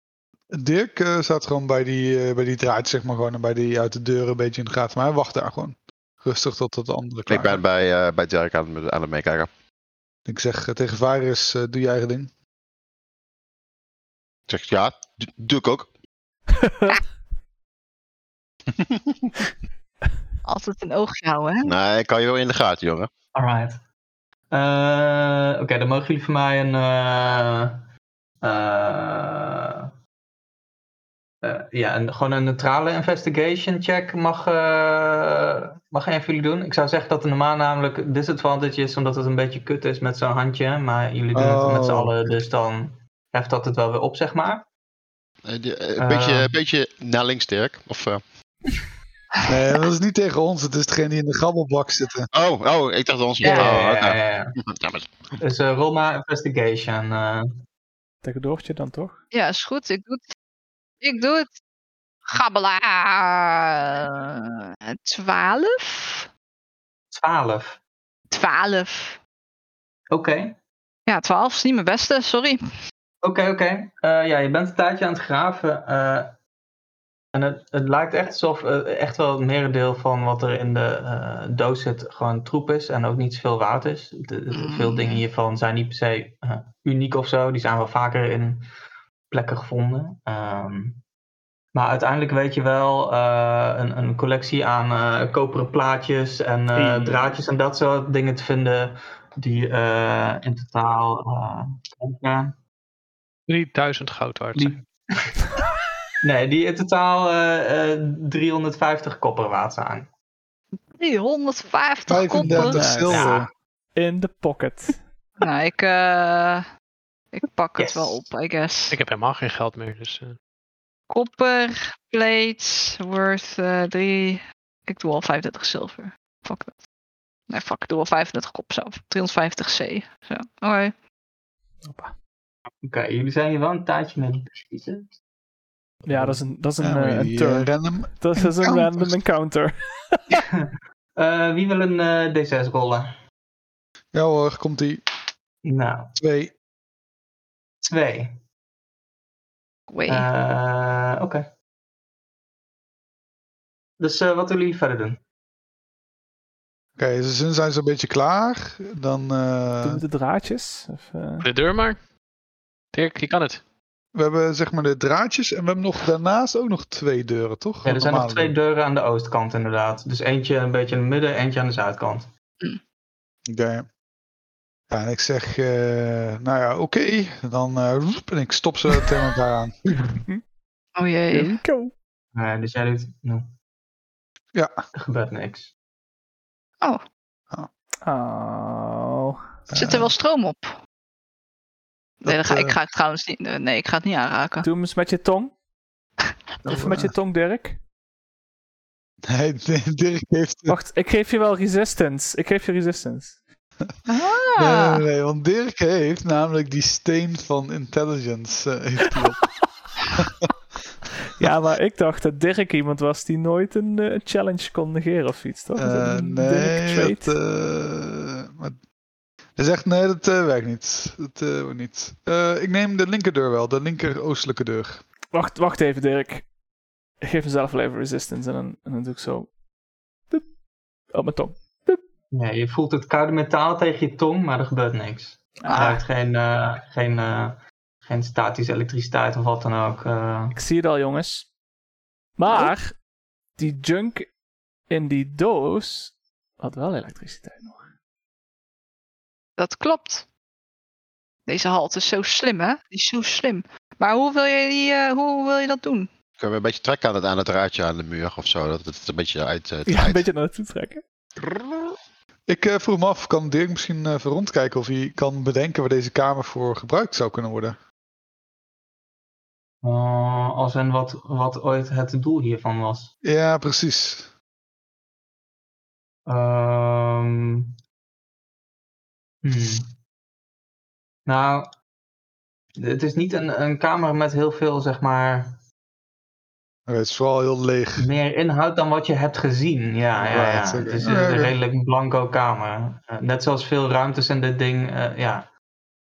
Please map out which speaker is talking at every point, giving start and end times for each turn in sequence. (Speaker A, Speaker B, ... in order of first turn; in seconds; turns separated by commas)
Speaker A: 0.5-7.6, Speaker B: 7.3-9.5, Speaker A: 10.2-12.3, Speaker B: 14.5-15.9, Speaker C: 16.6-17.0, Speaker D: 20.4-21.7, Speaker B: 21.6-23.1, Speaker E: 23.3-23.8, Speaker E: 24.5-27.8, Speaker E: 28.4-29.9, Speaker E: 31.4-44.6, Speaker A: 41.3-42.4, Speaker B: 45.4-48.2, Speaker E: 46.0-46.5, Speaker A: 49.5-52.3, Speaker B: 52.3-55.3, Speaker D: 53.4-53.7, Speaker E: 53.4-54.5, Speaker E: 55.4-57.5, Speaker C: 58.2-59.2, Speaker D: 59.3-60.2, Speaker D: 61.0-61.5, Speaker D: 62.3-66.3, Speaker E: 67.1-67.8, Speaker D: 68.3-69.2, Speaker E: 70.1-70.5, Speaker D: 71.1-72.6, Speaker E: 73.2-76.3, Speaker E: 77.3-88.6, Speaker D: 84.5-85.2, Speaker E: 89.3-91.0, Speaker E: 91.7-102.5, Speaker C: 96.7-97.3, Speaker F: 103.5-104.7, Speaker E: 104.5-105.4, Speaker E: 106.2-110.1, Speaker D: 111.0-112.9, Speaker A: 112.1-113.5, Speaker C: 112.4-113.2, Speaker F: 113.1-113.5, Speaker C: 113.9-115.0, Speaker D: 115.4-116.6, Speaker D: 117.3-119.0, Speaker E: 117.8-118.2, Speaker F: 118.9-120.4, Speaker D: 121.1-126.7, Speaker D: 127.5-130.9, Speaker C: 131.8-132.1, Speaker E: 132.8-135.1, Speaker C: 136.0-140.4, Speaker A: 136.1-139.2, Speaker E: 140.3-143.1, Speaker A: 144.1-145.0, Speaker E: 145.6-146.1, Speaker A: 146.2-146.5, Speaker E: 147.8-148.4, Speaker D: 149.9-150.3, Speaker E: 150.1-151.4, Speaker E: 154.0-155.2, Speaker A: 156.9-160.0, Speaker C: 159.8-161.4, Speaker F: 161.4-162.0, Speaker F: 162.9-163.6, Speaker A: 164.1-168.6, Speaker E: 167.8-172.3, Speaker A: 173.5-173.8, Speaker A: 174.9-179.9, Speaker D: 180.9-181.6, Speaker C: 181.3-181.9, Speaker E: 182.3-183.5, Speaker E: 184.9-185.7, Speaker C: 188.0-189.4, Speaker A: 189.7-190.1, Speaker D: 189.7-190.7, Speaker D: 192.2-194.7, Speaker A: 192.2-192.8, Speaker C: 194.6-195.5, Speaker C: 196.6-197.8, Speaker A: 196.6-197.1, Speaker A: 199.2-200.8, Speaker C: 200.7-203.4, Speaker D: 204.1-205.0, Speaker A: 204.6-209.5, Speaker C: 211.4-217.3, Speaker A: 215.8-218.8, Speaker A: 219.6-225.0, Speaker C: 225.3-226.4, Speaker C: 227.2-229.5, Speaker C: 231.1-232.0, Speaker E: 232.3-240.6, Speaker C: 235.6-236.0, Speaker C: 240.5-241.5, Speaker C: 242.4-242.9, Speaker C: 243.6-244.3, Speaker C: 244.9-247.8, Speaker D: 249.6-250.2, Speaker D: 251.4-256.1, Speaker B: 256.4-260.2, Speaker C: 259.9-261.0, Speaker A: 262.5-267.8, Speaker E: 269.8-273.1, Speaker A: 273.2-274.3, Speaker E: 276.2-277.7, Speaker E: 279.4-279.9, Speaker E: 281.2-281.7, Speaker E: 282.8-285.6, Speaker A: 286.9-288.1, Speaker E: 288.0-295.5, Speaker A: 290.2-291.6